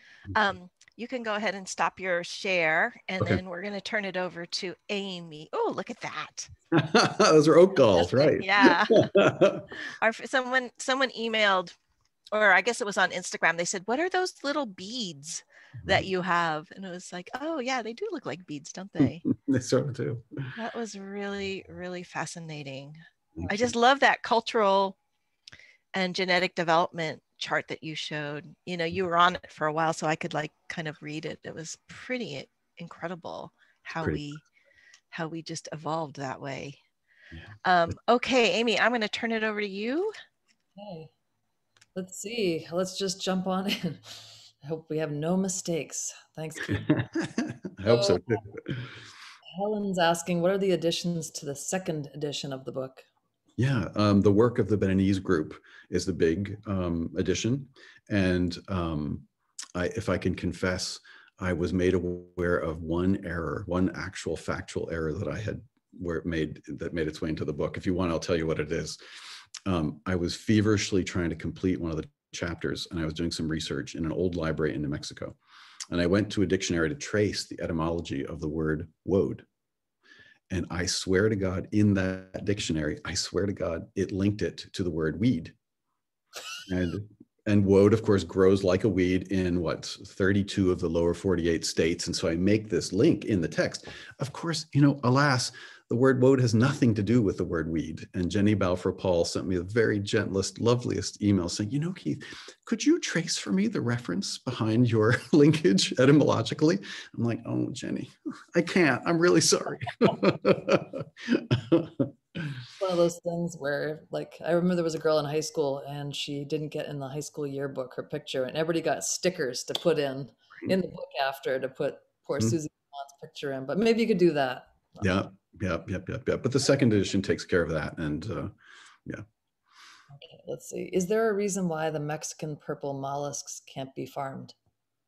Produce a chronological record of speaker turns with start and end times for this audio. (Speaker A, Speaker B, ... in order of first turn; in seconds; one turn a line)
Speaker A: 0.3-6.5
Speaker B: 6.7-9.7
Speaker A: 8.0-9.1
Speaker A: 9.9-11.7
Speaker A: 12.3-19.3
Speaker B: 19.2-20.5
Speaker A: 20.6-25.0
Speaker B: 23.4-23.7
Speaker A: 25.9-34.4
Speaker A: 35.1-36.8
Speaker A: 37.6-40.1
Speaker C: 40.8-41.1
Speaker C: 42.0-46.9
Speaker B: 46.7-48.9
Speaker C: 47.9-48.4
Speaker C: 49.5-53.0
Speaker B: 53.6-69.0
Speaker B: 69.7-75.4
Speaker B: 75.9-79.5
Speaker B: 80.5-85.5
Speaker B: 86.7-112.5
Speaker C: 112.8-125.0
Speaker B: 125.0-128.5
Speaker C: 130.1-134.6